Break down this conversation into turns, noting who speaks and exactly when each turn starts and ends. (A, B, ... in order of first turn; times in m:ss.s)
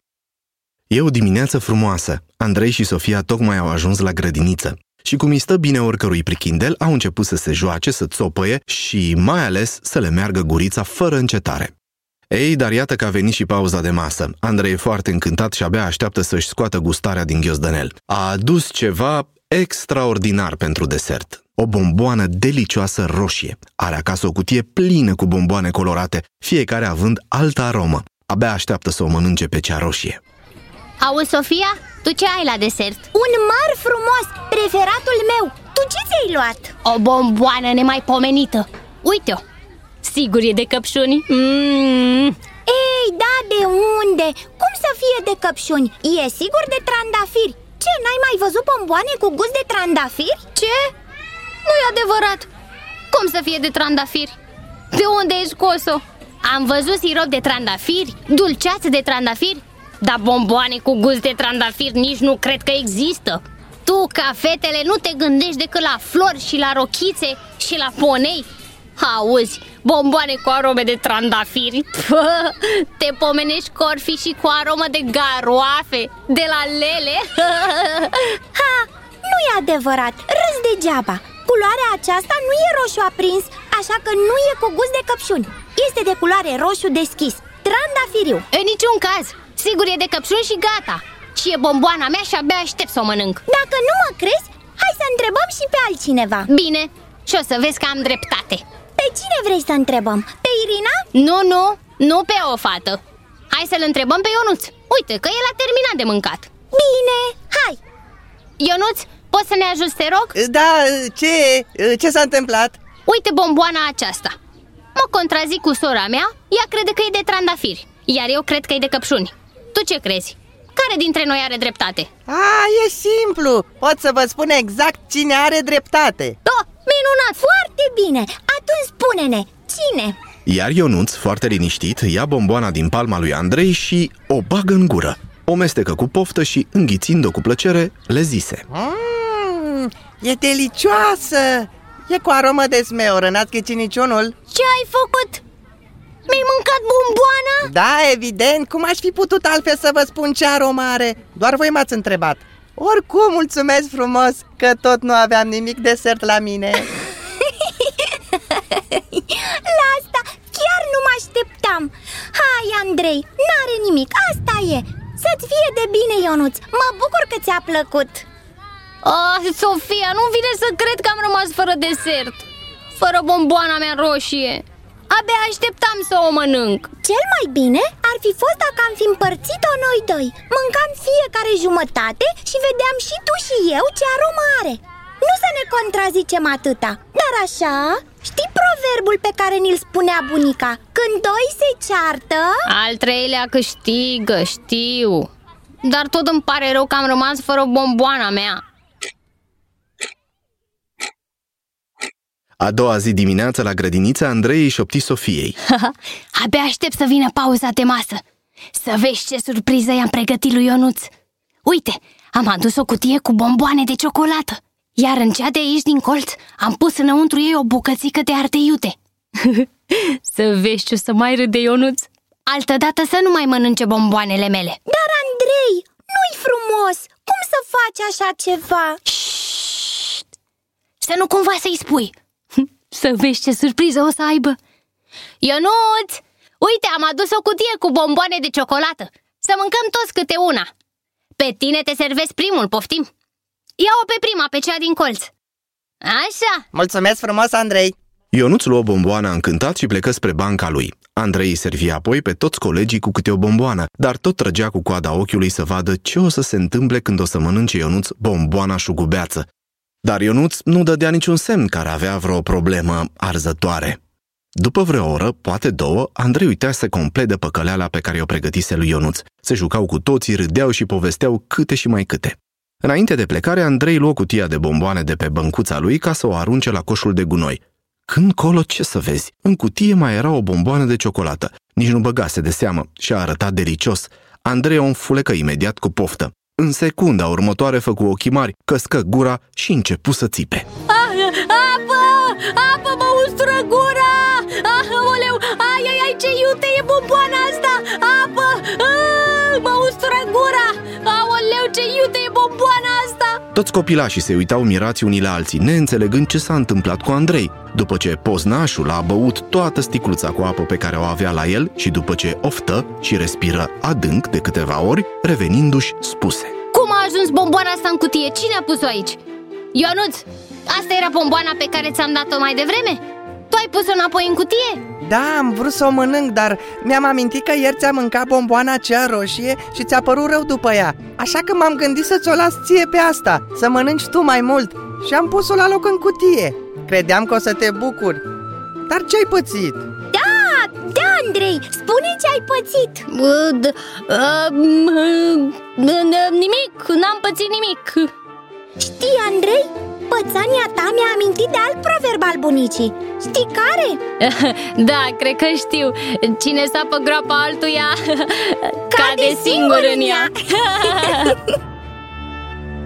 0:00.9-0:11.7 A
0:12.3-0:30.2 A
0:31.0-0:33.0 B
0:33.1-0:36.7 C
0:36.8-0:39.4 B
0:40.0-0:42.4 B
0:42.6-0:50.4 C
0:50.5-0:50.9 B
0:51.6-0:52.5 B
0:53.1-0:54.4 B
0:54.9-1:18.4 B
1:18.5-1:28.5 C
1:28.5-1:33.4 B
1:33.5-1:36.5 C
1:36.5-1:38.6 B
1:39.0-1:41.0 C
1:41.1-1:46.5 B
1:46.7-1:47.8 C
1:48.6-1:50.3 B
1:50.4-1:52.8 D
1:53.0-1:54.3 B
1:55.0-2:02.1 B
2:02.3-2:06.4 D
2:06.4-2:07.4 B
2:07.4-2:10.2 C
2:10.4-2:18.6 A
2:18.7-2:24.3 D
2:24.5-2:25.4 B
2:26.3-2:27.7 B
2:27.6-2:36.9 D
2:37.6-2:48.3 C
2:49.0-2:52.4 B
2:53.0-2:56.9 B
2:57.0-3:12.7 C
3:12.6-3:15.3 B
3:15.8-3:18.6 B
3:22.6-3:25.6 A
3:25.7-3:28.2 B
3:28.7-3:31.1 B
3:31.6-3:44.8 B
3:44.9-3:49.0 C
3:49.1-3:50.2 B
3:51.0-3:54.6 B
3:55.4-4:00.7 B
4:01.4-4:03.1 B
4:03.8-4:05.3 B
4:06.0-4:06.6 B
4:06.7-4:07.9 D
4:08.3-4:19.5 A
4:20.0-4:24.0 A
4:24.6-4:50.7 A
4:50.9-5:03.4 B
5:03.5-5:16.5 A
5:16.7-5:19.2 B
5:19.7-5:24.8 B
5:25.0-5:38.2 D
5:38.9-5:39.9 D
5:40.1-5:43.0 C
5:43.1-5:48.1 B
5:48.8-5:54.0 C
5:54.2-6:01.4 B
5:58.9-6:00.3 C
6:00.9-6:01.5 C